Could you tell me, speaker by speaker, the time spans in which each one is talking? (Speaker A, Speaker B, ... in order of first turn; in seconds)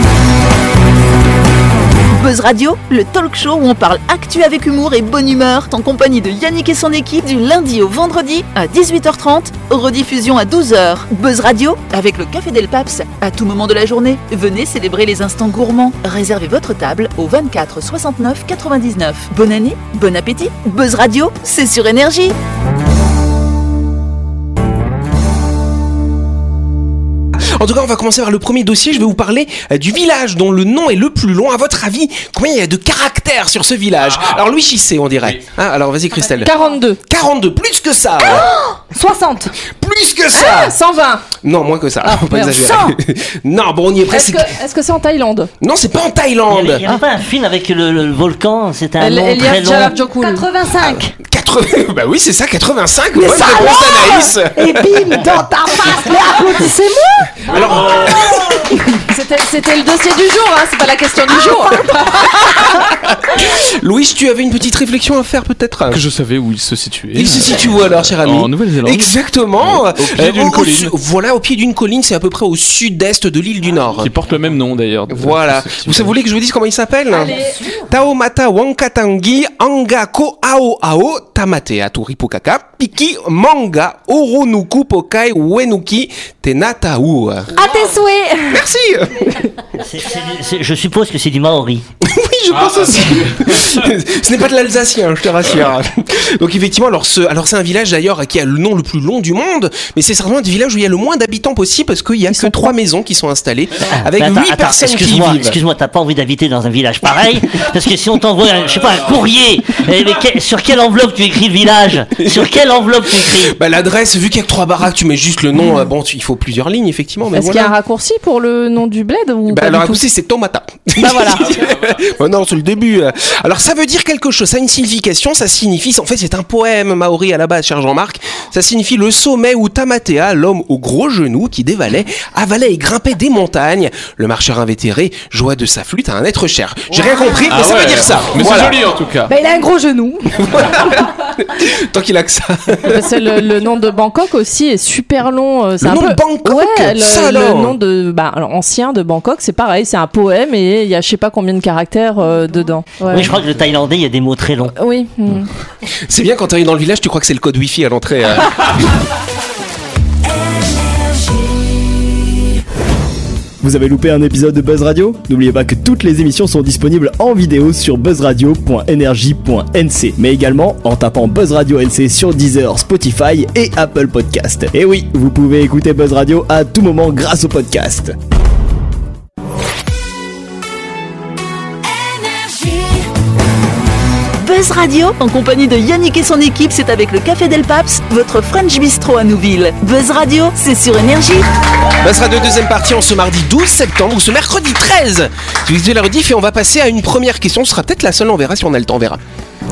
Speaker A: 2.1-22.3, 184.4-191.4
Speaker B: 27.5-38.5, 39.7-40.8, 41.4-44.5, 45.6-46.8, 50.8-55.2, 57.4-58.8, 62.1-66.0, 67.1-74.1, 75.1-87.5, 88.5-89.4, 92.0-105.6, 113.2-117.7, 119.5-138.8, 140.4-143.3, 145.8-147.8, 156.1-158.7, 192.0-199.2
Speaker C: 34.0-34.4, 65.9-70.9, 74.0-76.2, 92.5-93.9, 108.5-109.2, 121.4-122.0, 137.5-139.3
Speaker D: 36.2-37.0, 40.3-41.3, 42.0-42.8, 44.0-45.5, 49.0-50.5, 59.1-62.7, 77.1-77.6, 102.3-102.7, 117.3-120.0, 121.0-121.5, 142.8-153.4, 154.8-155.5
Speaker E: 38.2-39.5, 42.6-42.9, 49.9-51.1, 53.1-57.3, 87.5-88.6, 139.3-140.4
Speaker F: 46.5-50.0, 89.8-91.8, 104.0-113.5, 153.1-154.7
Speaker G: 163.6-178.1